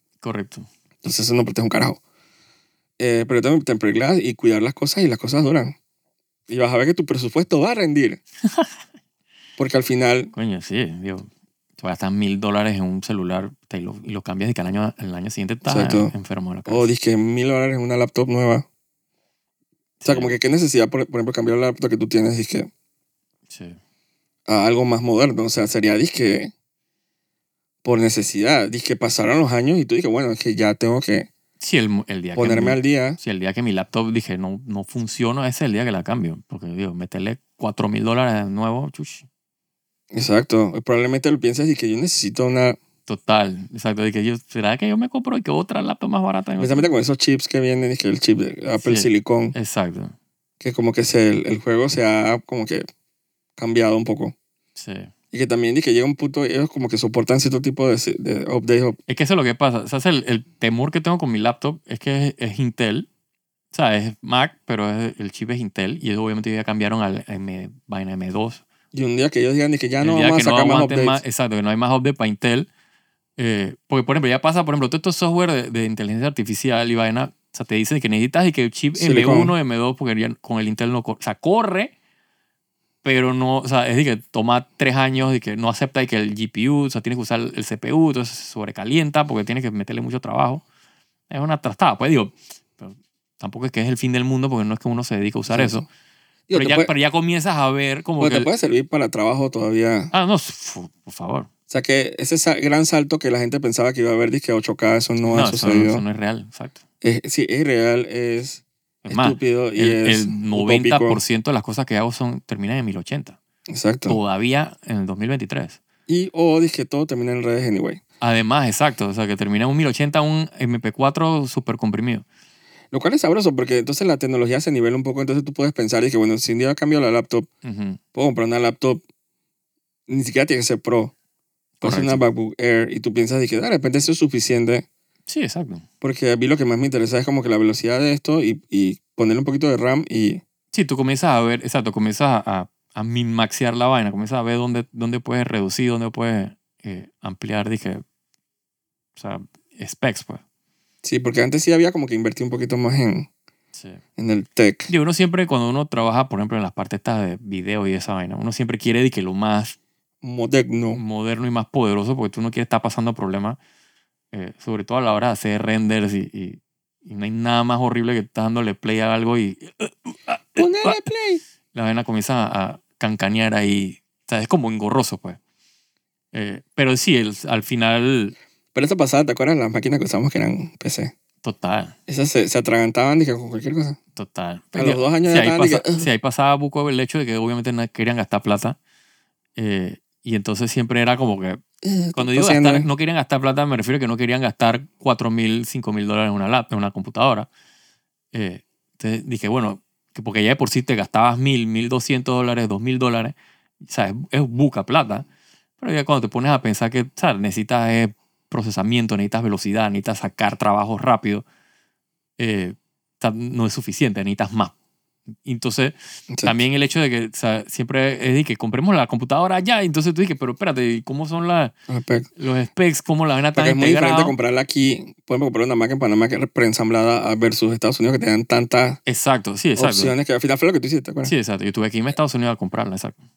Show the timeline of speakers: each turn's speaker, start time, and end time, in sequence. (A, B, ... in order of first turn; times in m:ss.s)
0:00.2-0:00.7 A
0:01.0-0:02.0 B
0:03.0-0:05.8 B
0:06.5-0:08.2 B
0:08.4-0:08.7 A
0:09.6-0:10.3 B
0:10.3-0:16.9 A
0:15.6-0:16.1 B
0:16.7-0:18.6 B
0:20.0-0:20.4 A
0:20.0-0:22.7 B
0:23.5-0:23.8 A
0:24.5-0:26.5 B
0:27.8-0:31.3 B
0:31.6-0:39.2 A
0:32.3-0:33.2 B
0:40.1-0:42.8 B
0:43.1-0:46.9 A
0:46.6-0:49.5 B
0:48.8-0:50.1 A
0:50.6-0:52.8 B
0:53.6-0:54.3 B
0:54.7-0:55.1 A
0:55.3-0:59.0 B
0:59.1-1:03.1 A
1:03.7-1:08.6 A
1:08.9-1:11.2 B
1:10.0-1:12.7 A
1:13.4-1:21.9 A
1:18.9-1:19.5 B
1:23.0-1:30.6 A
1:31.3-1:35.9 A
1:35.5-1:35.8 B
1:36.5-1:36.9 B
1:36.5-1:38.5 A
1:38.2-1:40.1 B
1:40.1-1:41.5 A
1:41.7-1:46.0 B
1:45.2-1:46.8 A
1:47.0-1:51.2 B
1:49.0-1:53.4 A
1:53.7-1:54.2 B
1:54.1-1:55.8 A
1:56.1-1:58.0 B
1:58.2-2:02.2 A
2:02.9-2:07.5 B
2:07.6-2:08.0 A
2:08.1-2:09.0 B
2:10.1-2:11.1 B
2:11.8-2:12.2 A
2:11.8-2:14.8 B
2:15.3-2:15.8 A
2:16.0-2:20.4 B
2:20.7-2:28.0 A
2:29.2-2:30.4 A
2:31.0-2:33.3 B
2:33.7-2:34.0 A
2:34.2-2:34.9 B
2:34.9-2:39.8 A
2:40.2-2:41.0 B
2:40.9-2:43.6 A
2:44.3-2:51.0 A
2:50.5-2:51.4 B
2:51.7-2:55.4 A
2:56.3-2:58.3 A
2:58.7-3:01.1 B
3:01.4-3:02.0 A
3:02.1-3:04.0 B
3:04.1-3:08.8 A
3:04.7-3:06.1 B
3:09.6-3:11.6 A
3:11.8-3:12.9 B
3:12.1-3:17.5 A
3:18.3-3:25.3 A
3:25.8-3:31.4 A
3:32.4-3:34.7 A
3:35.4-3:41.7 A
3:36.3-3:36.5 B
3:41.9-3:42.3 B
3:42.4-3:44.3 A
3:43.5-3:49.0 B
3:49.0-3:50.1 A
3:49.8-3:51.3 B
3:51.2-3:53.2 A